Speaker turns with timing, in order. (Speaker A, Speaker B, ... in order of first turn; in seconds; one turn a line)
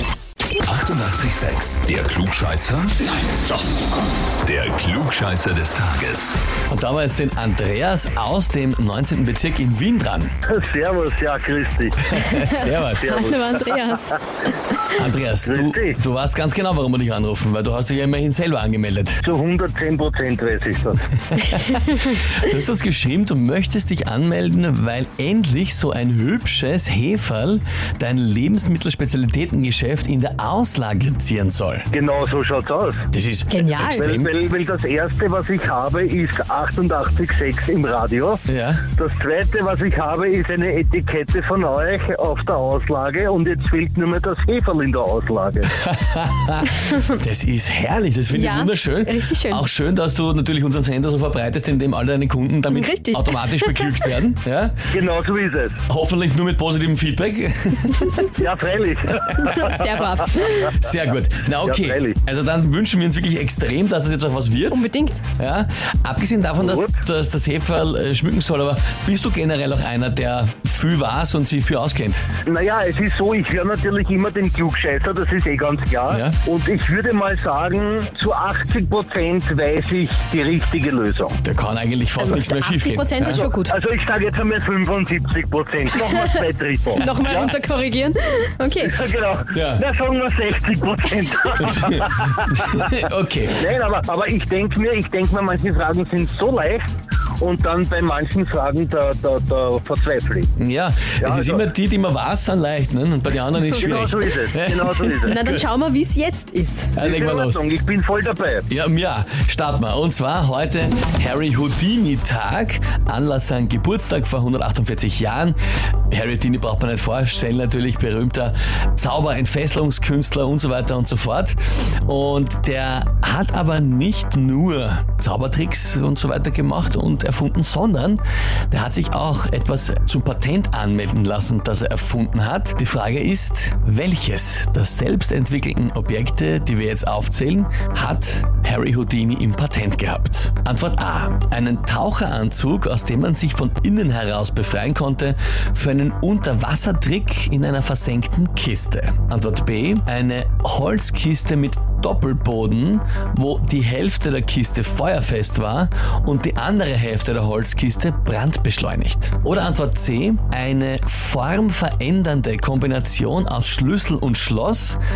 Speaker A: 0.6-3.5
Speaker A: 4.3-6.4
Speaker B: 6.7-10.3
Speaker C: 10.5-12.2
Speaker B: 12.1-13.3
Speaker D: 12.2-14.2
Speaker C: 13.0-13.8
Speaker B: 14.9-19.2
Speaker C: 15.4-16.0
Speaker C: 19.2-21.0
Speaker B: 21.3-31.9
Speaker C: 31.9-33.0
Speaker B: 33.1-34.3
Speaker D: 33.5-34.1
Speaker C: 33.9-45.7
Speaker B: 38.5-38.8
Speaker B: 45.8-54.7
Speaker D: 48.3-49.6
Speaker D: 52.7-54.1
Speaker C: 54.9-55.8
Speaker B: 55.9-58.3
Speaker C: 58.3-59.8
Speaker D: 59.5-60.7
Speaker B: 60.4-64.9
Speaker C: 61.6-62.2
Speaker D: 64.7-65.2
Speaker B: 65.4-72.2
Speaker C: 66.6-67.0
Speaker C: 72.4-81.4
Speaker B: 76.1-76.3
Speaker B: 81.4-83.5
Speaker D: 82.2-83.8
Speaker C: 83.2-87.5
Speaker D: 86.9-89.0
Speaker C: 88.8-92.9
Speaker B: 89.5-89.8
Speaker B: 91.6-93.6
Speaker C: 93.5-100.5
Speaker B: 100.6-105.7
Speaker C: 101.2-101.7
Speaker C: 103.7-105.4
Speaker D: 105.2-106.9
Speaker B: 106.9-107.6
Speaker C: 107.0-108.7
Speaker B: 108.7-115.6
Speaker B: 116.1-165.0